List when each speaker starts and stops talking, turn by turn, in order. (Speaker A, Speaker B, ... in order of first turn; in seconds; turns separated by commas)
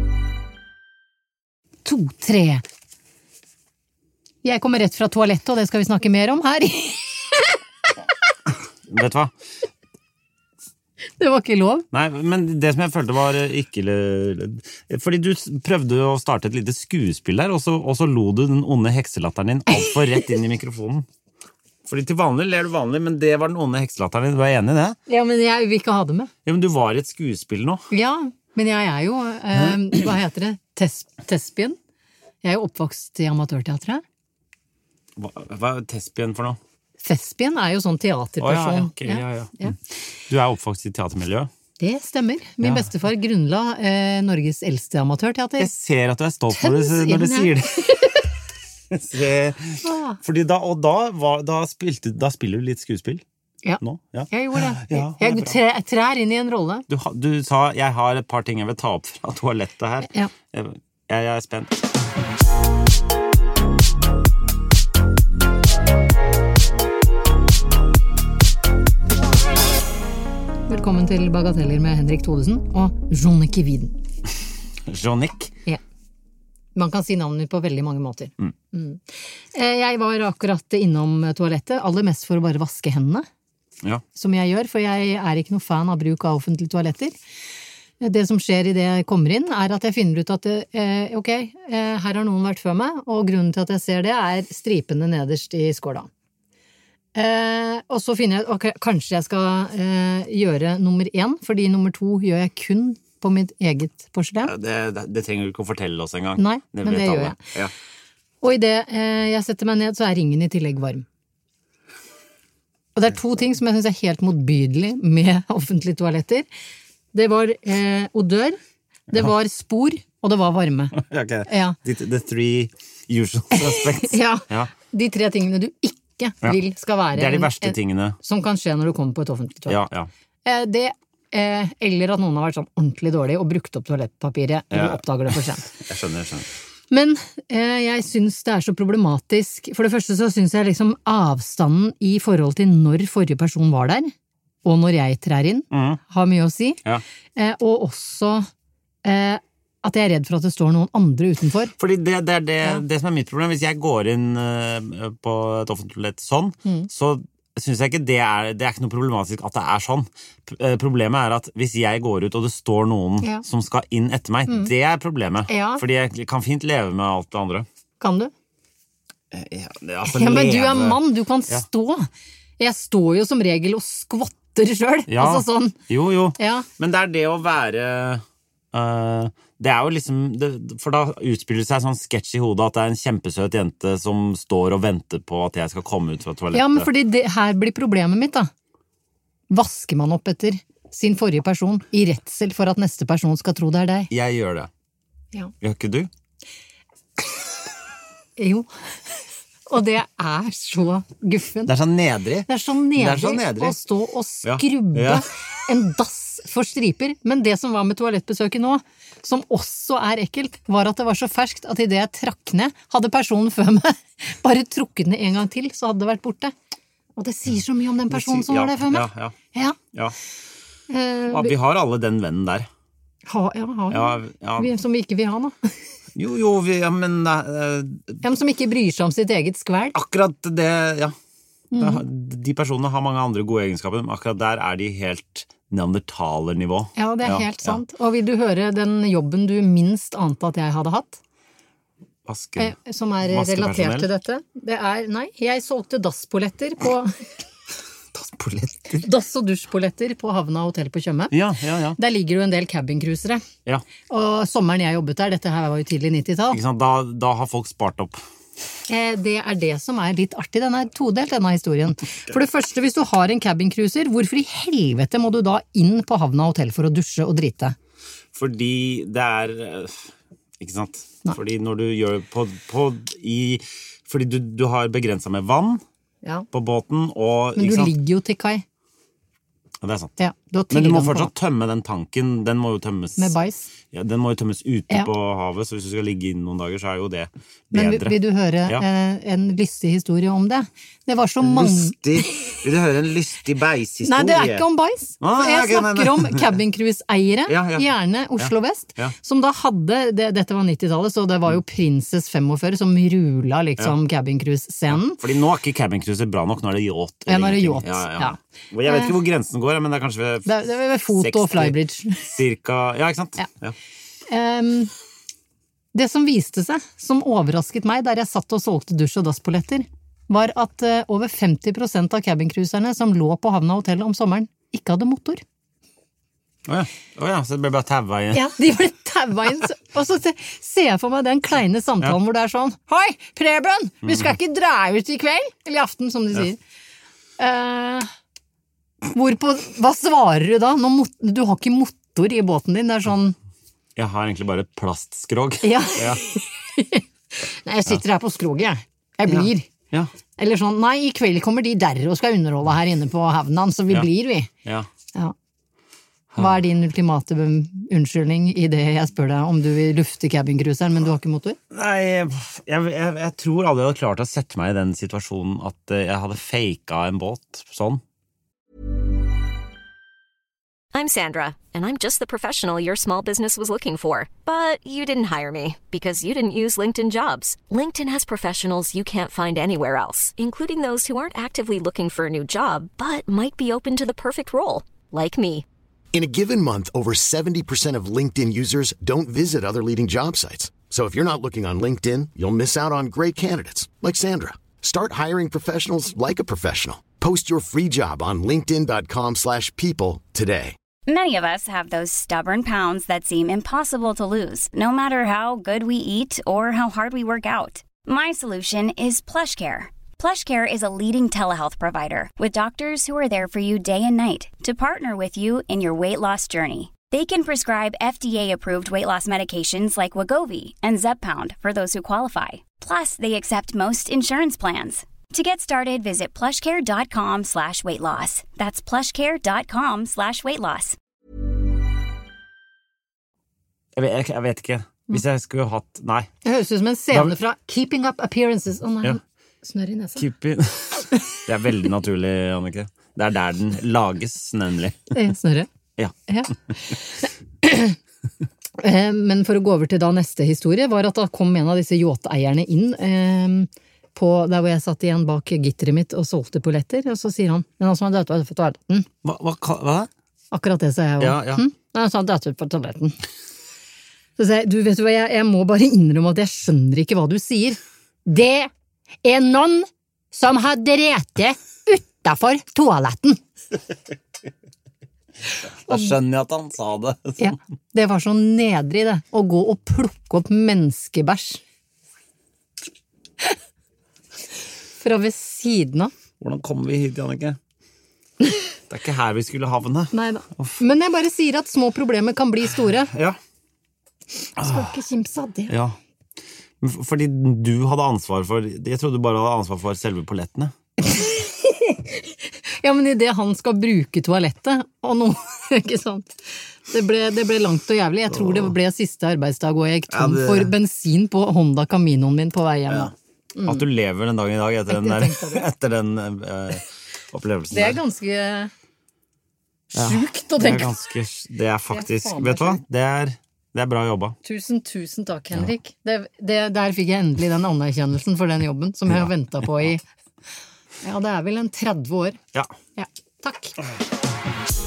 Speaker A: 1.8-2.6, Speaker A: 4.4-7.6, Speaker B: 8.9-9.3, Speaker A: 11.2-11.8, Speaker B: 11.9-21.1, Speaker B: 21.9-25.0, Speaker A: 25.1-26.3, Speaker B: 26.4-27.9, Speaker A: 27.9-31.8, Speaker A: 32.4-34.0, Speaker B: 35.2-36.6, Speaker A: 37.0-39.8, Speaker B: 38.4-41.5, Speaker A: 41.8-45.7, Speaker B: 45.6-48.0, Speaker A: 46.5-48.2, Speaker B: 48.9-53.2, Speaker A: 49.8-50.2, Speaker A: 53.6-56.9, Speaker B: 53.8-55.6, Speaker B: 56.9-61.8, Speaker A: 70.7-74.0, Speaker B: 74.9-75.5, Speaker A: 76.8-83.2, Speaker A: 84.1-87.2, Speaker A: 88.0-96.1, Speaker A: 97.1-104.5, Speaker B: 104.4-107.7, Speaker A: 106.4-107.4, Speaker A: 108.4-111.0, Speaker A: 113.0-116.5, Speaker A: 117.1-118.6, Speaker A: 119.1-121.8, Speaker B: 120.9-124.7, Speaker A: 123.5-129.8, Speaker B: 127.1-128.2, Speaker B: 129.7-130.1, Speaker A: 130.4-135.7, Speaker B: 134.7-136.5, Speaker A: 136.9-144.1, Speaker A: 144.6-146.8, Speaker B: 145.7-146.0, Speaker A: 147.4-148.5, Speaker A: 149.0-151.7, Speaker B: 151.8-167.7, Speaker A: 165.5-165.8, Speaker A: 168.0-168.3, Speaker B: 169.3-171.6, Speaker A: 170.1-175.8, Speaker B: 175.1-186.9, Speaker A: 176.4-176.7, Speaker A: 186.5-188.5, Speaker A: 189.5-194.1, Speaker B: 194.1-194.7, Speaker B: 195.6-196.1, Speaker A: 198.4-198.7, Speaker A: 199.7-201.7, Speaker B: 201.7-203.8, Speaker A: 202.5-216.5, Speaker B: 204.4-205.2, Speaker A: 217.2-219.8, Speaker B: 218.1-219.4, Speaker B: 219.9-220.2, Speaker A: 220.9-221.5, Speaker B: 221.3-222.7, Speaker A: 223.2-225.7, Speaker B: 223.9-224.7, Speaker B: 226.1-228.2, Speaker A: 228.2-229.9, Speaker B: 229.9-231.1, Speaker A: 231.7-232.0, Speaker B: 231.8-237.8, Speaker A: 236.9-241.2, Speaker B: 242.2-244.1, Speaker A: 242.6-247.2, Speaker B: 248.1-249.1, Speaker A: 248.9-251.3, Speaker B: 251.3-252.0, Speaker A: 251.9-253.4, Speaker A: 254.1-256.6, Speaker B: 256.5-258.2, Speaker A: 258.9-267.8, Speaker B: 268.3-275.8, Speaker B: 276.5-277.9, Speaker A: 277.6-278.6, Speaker B: 279.8-280.1, Speaker A: 280.2-281.3, Speaker B: 280.7-283.3, Speaker A: 283.2-283.7, Speaker B: 283.9-288.8, Speaker A: 287.7-292.6, Speaker B: 291.4-294.6, Speaker A: 294.0-305.2, Speaker B: 295.2-296.5, Speaker B: 297.5-297.9, Speaker B: 298.4-299.1, Speaker B: 304.9-313.8, Speaker A: 307.3-309.2, Speaker A: 310.4-312.3, Speaker A: 314.3-314.9, Speaker A: 315.9-325.4, Speaker B: 326.6-328.5, Speaker A: 328.3-336.6, Speaker B: 334.0-334.4, Speaker A: 337.4-338.1, Speaker A: 339.1-343.4, Speaker B: 343.9-346.2, Speaker A: 345.6-349.7, Speaker B: 349.3-350.1, Speaker A: 350.4-354.5, Speaker B: 354.6-354.9, Speaker A: 356.4-361.6, Speaker B: 361.7-368.0, Speaker C: 370.9-385.6, Speaker D: 386.1-400.8, Speaker E: 401.1-430.9, Speaker B: 433.9-436.3, Speaker A: 436.4-440.3, Speaker B: 440.2-445.1, Speaker A: 445.1-445.7, Speaker A: 446.3-448.0, Speaker A: 448.8-459.1, Speaker B: 459.2-460.1, Speaker A: 460.5-463.2, Speaker B: 461.2-461.6, Speaker A: 464.4-468.7, Speaker A: 469.2-473.4, Speaker B: 475.9-477.6, Speaker A: 477.4-481.6, Speaker A: 485.0-486.1, Speaker B: 486.4-487.6, Speaker B: 488.9-490.8, Speaker A: 490.1-493.1, Speaker B: 493.1-493.4, Speaker A: 494.6-495.8, Speaker B: 494.6-494.9, Speaker B: 495.7-496.0, Speaker B: 496.8-500.7, Speaker A: 501.0-513.9, Speaker B: 508.3-508.7, Speaker B: 510.1-510.7, Speaker B: 513.7-518.0, Speaker A: 514.9-515.7, Speaker A: 517.7-518.7, Speaker A: 519.9-521.0, Speaker B: 519.9-524.4, Speaker A: 521.9-522.8, Speaker A: 524.4-530.0, Speaker A: 531.0-532.4, Speaker A: 533.0-533.8